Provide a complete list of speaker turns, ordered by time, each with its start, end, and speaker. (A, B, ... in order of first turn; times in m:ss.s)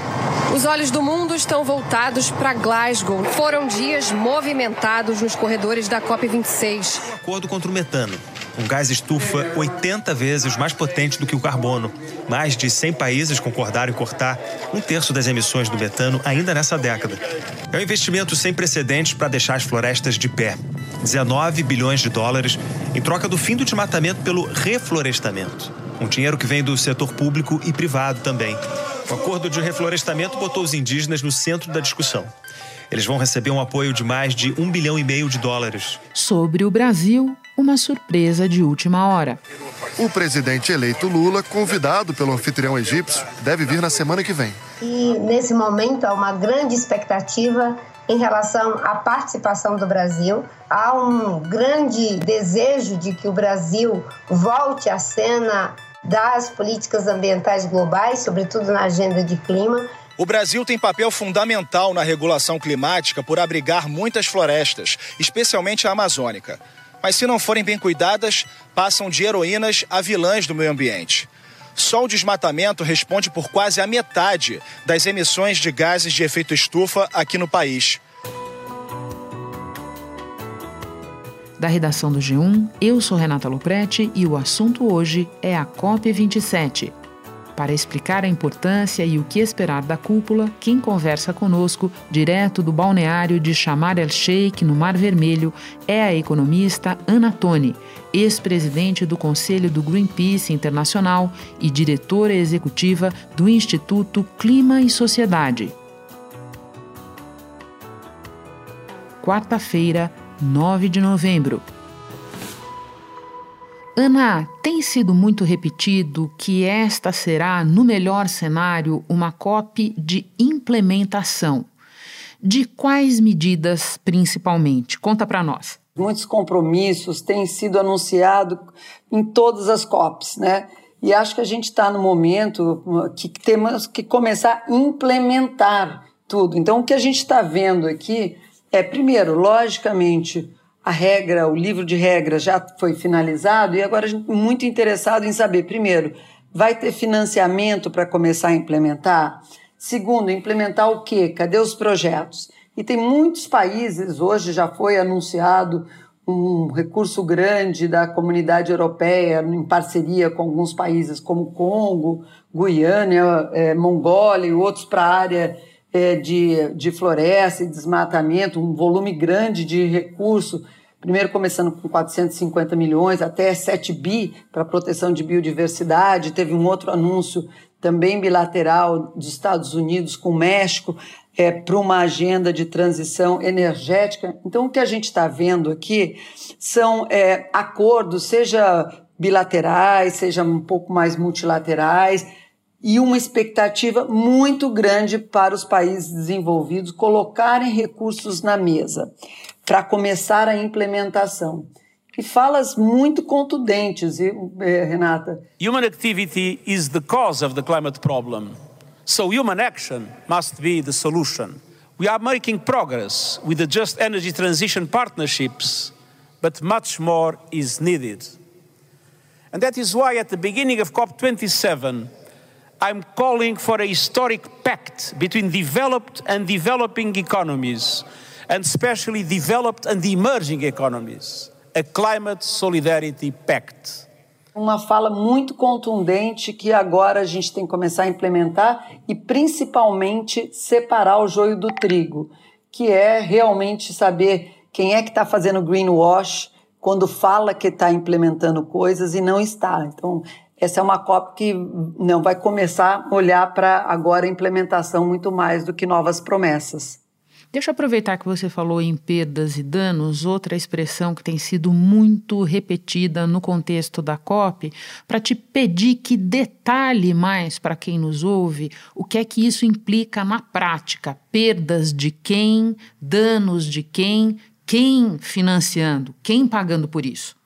0:00.5-0:07.1 A
0:07.0-0:32.3 B
0:32.9-0:36.0 B
0:36.1-0:39.4 C
0:40.0-0:44.6 D
0:44.8-0:59.9 E
1:00.2-1:18.0 F
1:21.6-1:26.9 C
1:27.6-1:45.7 C
1:49.2-1:51.6 C
1:54.0-2:01.7 C
2:02.4-2:05.8 C
2:06.0-3:12.3 G
3:12.8-3:19.1 G
3:19.6-3:25.4 G
3:25.6-3:38.4 H
3:39.5-3:42.1 H
3:42.8-3:54.1 H
3:54.5-4:17.0 G
4:17.5-4:37.3 C